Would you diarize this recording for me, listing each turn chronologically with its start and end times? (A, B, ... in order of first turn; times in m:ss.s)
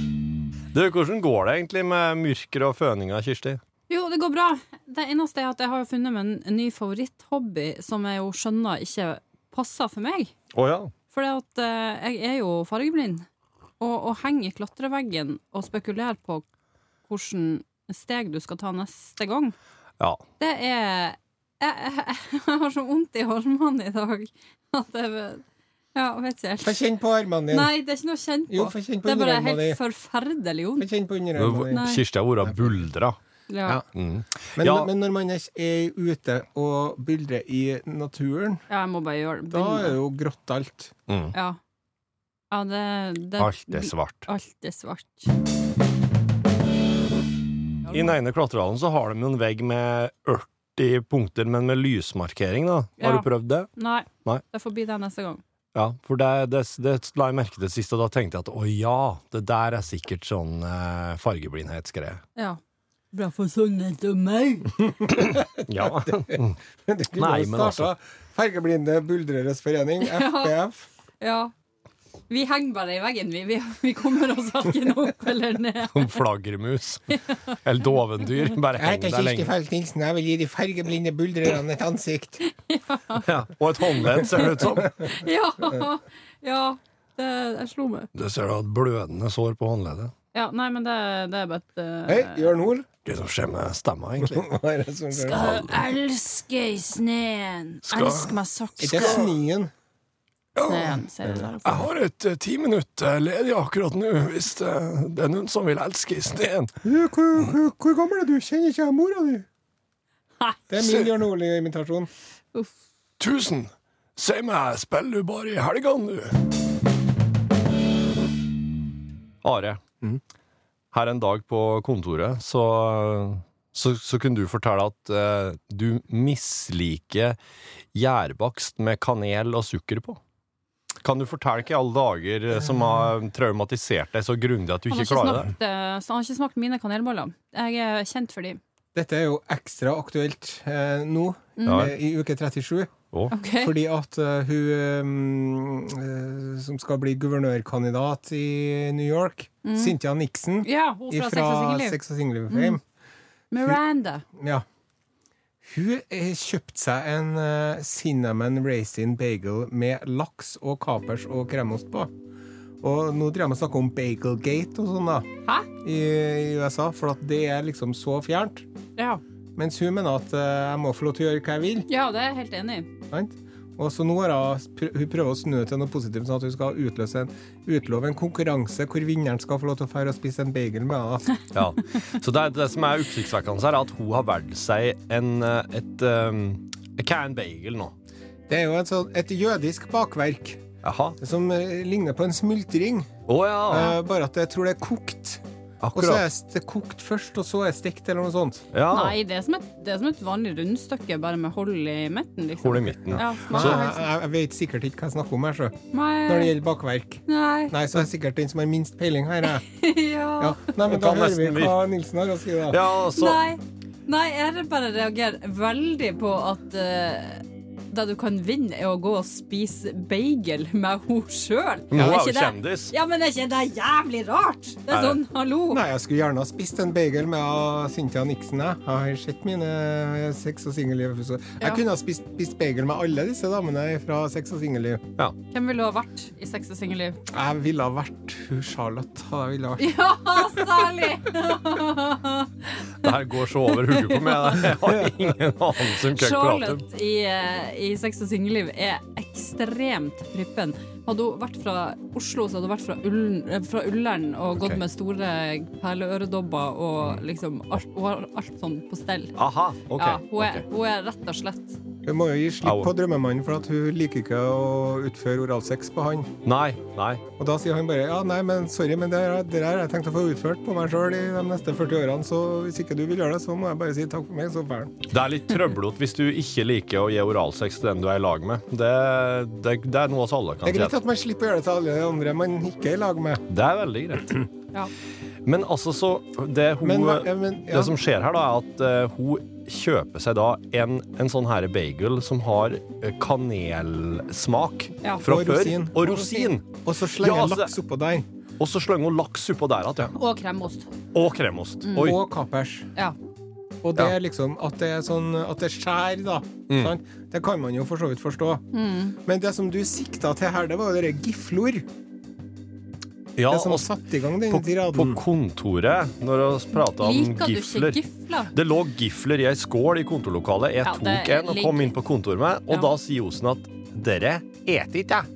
0:00.7-0:03.6 A
0:03.9-0:10.3 B
0:10.5-0:10.9 A
0:11.1-0:13.2 B
0:13.8-0:16.4 B
0:17.1-0:19.6 B
0:20.4-0:25.4 B
0:25.9-0:26.8 B
0:26.6-0:27.7 C
0:27.5-0:30.9 B
0:28.5-0:29.8 C
0:30.8-0:31.9 C
0:31.4-0:33.2 A
0:31.7-0:32.0 B
0:32.4-0:32.8 C
0:33.5-0:33.8 B
0:33.9-0:34.9 A
0:34.6-0:38.6 C
0:38.7-0:40.0 B
0:39.5-0:40.9 C
0:41.1-0:41.3 A
0:41.3-0:41.6 B
0:42.5-0:45.3 B
0:43.4-0:44.2 A
0:47.9-0:48.1 B
0:47.9-0:53.7 A
0:53.0-0:55.4 B
0:55.8-1:02.2 A
1:03.1-1:04.8 B
1:05.0-1:10.9 C
1:05.1-1:06.6 A
1:07.2-1:07.9 A
1:10.0-1:10.6 B
1:11.2-1:11.5 B
1:12.3-1:16.2 B
1:15.9-1:19.5 A
1:17.1-1:17.5 B
1:18.8-1:22.4 C
1:22.4-1:23.3 B
1:23.2-1:25.1 A
1:23.9-1:28.1 B
1:24.8-1:25.1 C
1:28.2-1:30.1 A
1:30.3-1:32.6 B
1:32.1-1:32.9 C
1:33.0-1:34.5 A
1:34.2-1:35.6 C
1:35.1-1:39.2 B
1:35.3-1:35.8 A
1:37.9-1:38.3 A
1:38.8-1:39.7 C
1:38.9-1:39.2 A
1:40.6-1:41.0 A
1:40.6-1:41.8 B
1:41.6-1:46.7 A
1:46.8-1:49.5 C
1:50.7-1:52.1 C
1:50.8-1:51.1 A
1:53.2-1:56.4 A
1:59.4-1:59.8 A
2:00.9-2:07.4 A
2:07.9-2:10.2 A
2:11.0-2:15.5 A
2:14.9-2:18.6 B
2:19.0-2:32.8 C
2:21.6-2:21.9 B
2:21.7-2:21.9 A
2:23.3-2:23.7 B
2:29.6-2:30.0 B
2:30.6-2:32.0 B
2:32.5-2:32.8 B
2:33.5-2:34.2 B
2:34.3-2:34.6 C
2:35.6-2:42.1 C
2:42.8-2:48.7 C
2:49.6-2:51.9 C
2:51.9-2:52.9 B
2:53.1-3:01.3 C
3:01.5-3:07.9 A
3:08.5-3:10.6 C
3:10.8-3:11.2 A
3:11.2-3:13.1 C
3:13.3-3:13.9 A
3:13.7-3:15.4 C
3:15.8-3:16.2 A
3:15.9-3:18.7 C
3:18.7-3:19.2 A
3:18.9-3:24.1 B
3:22.6-3:23.8 A
3:23.2-3:29.6 C
3:25.9-3:26.5 B
3:27.3-3:27.7 B
3:29.6-3:30.6 B
3:30.4-3:32.8 C
3:30.8-3:31.8 A
3:32.7-3:33.4 A
3:33.1-3:45.8 B
3:41.9-3:42.9 A
3:41.9-3:42.2 C
3:44.9-3:45.2 A
3:45.7-3:55.0 C
3:55.5-3:57.2 B
3:57.2-4:00.6 C
3:59.8-4:03.1 B
4:03.0-4:06.8 A
4:03.7-4:04.8 B
4:06.1-4:19.4 B
4:19.4-4:20.6 A
4:20.0-4:21.8 B
4:22.0-4:26.3 C
4:22.6-4:22.9 A
4:26.4-4:27.2 A
4:27.4-4:35.0 C
4:35.1-4:41.0 A
4:40.6-4:43.4 C
4:43.5-4:44.5 A
4:45.4-4:57.7 A
4:46.8-4:48.0 C
4:55.2-4:58.2 C
4:58.6-5:00.1 A
5:00.1-5:00.9 B
5:01.1-5:02.2 A
5:01.8-5:02.2 B
5:02.0-5:02.9 C
5:03.8-5:08.6 C
5:06.7-5:07.0 A
5:08.7-5:09.2 B
5:09.2-5:11.9 C
5:13.4-5:13.9 A
5:13.5-5:15.2 C
5:14.5-5:18.0 A
5:16.8-5:18.5 B
5:18.5-5:25.3 A
5:20.8-5:21.9 B